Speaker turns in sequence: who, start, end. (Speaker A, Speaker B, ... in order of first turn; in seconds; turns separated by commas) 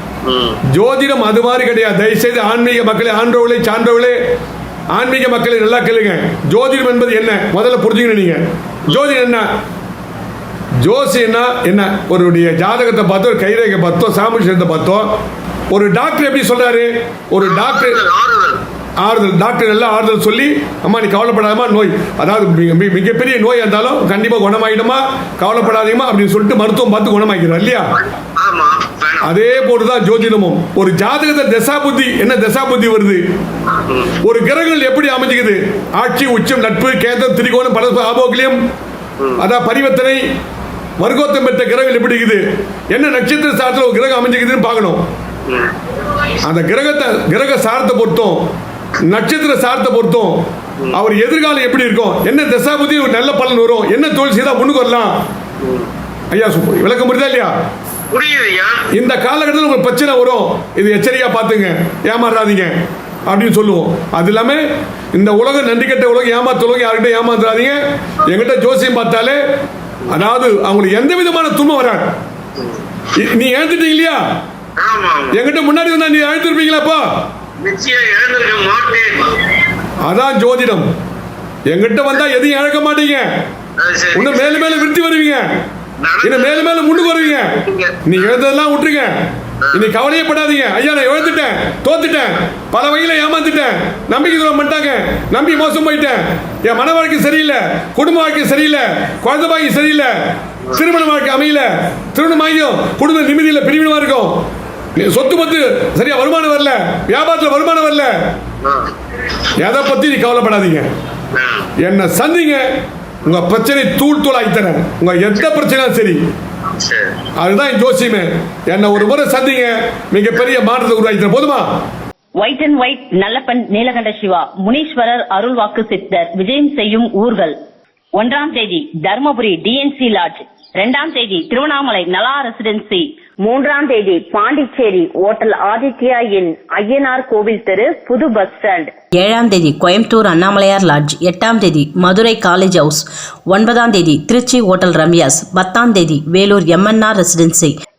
Speaker A: 0.3-0.6, Speaker B: 0.7-4.2, Speaker B: 4.9-9.5, Speaker B: 10.8-15.1, Speaker B: 15.7-18.0, Speaker A: 17.4-18.6, Speaker B: 19.0-27.9, Speaker A: 28.4-29.3, Speaker B: 29.2-33.2, Speaker A: 33.9-34.2, Speaker B: 34.2-38.6, Speaker B: 39.4-40.2, Speaker B: 41.0-45.0, Speaker A: 45.5-45.7, Speaker B: 46.4-48.5, Speaker B: 49.1-50.4, Speaker B: 50.9-55.1, Speaker A: 55.6-55.9, Speaker B: 56.3-57.5, Speaker A: 58.1-58.9, Speaker B: 58.9-62.7, Speaker B: 63.3-64.6, Speaker B: 65.1-69.4, Speaker B: 70.1-72.1, Speaker B: 73.2-74.2, Speaker A: 74.8-75.4, Speaker B: 75.3-77.1, Speaker A: 77.6-79.4, Speaker B: 80.0-80.9, Speaker B: 81.7-83.3, Speaker A: 83.8-84.9, Speaker B: 84.2-85.5, Speaker A: 86.0-88.4, Speaker B: 86.2-89.1, Speaker A: 89.6-89.9, Speaker B: 89.7-100.1, Speaker B: 100.7-104.4, Speaker B: 105.0-108.1, Speaker A: 108.6-108.9, Speaker B: 109.6-110.9, Speaker A: 111.3-111.7, Speaker B: 111.8-112.7, Speaker B: 113.3-116.2, Speaker A: 116.8-117.2, Speaker B: 117.4-121.7, Speaker C: 122.4-127.6, Speaker C: 128.2-138.9, Speaker D: 139.1-147.8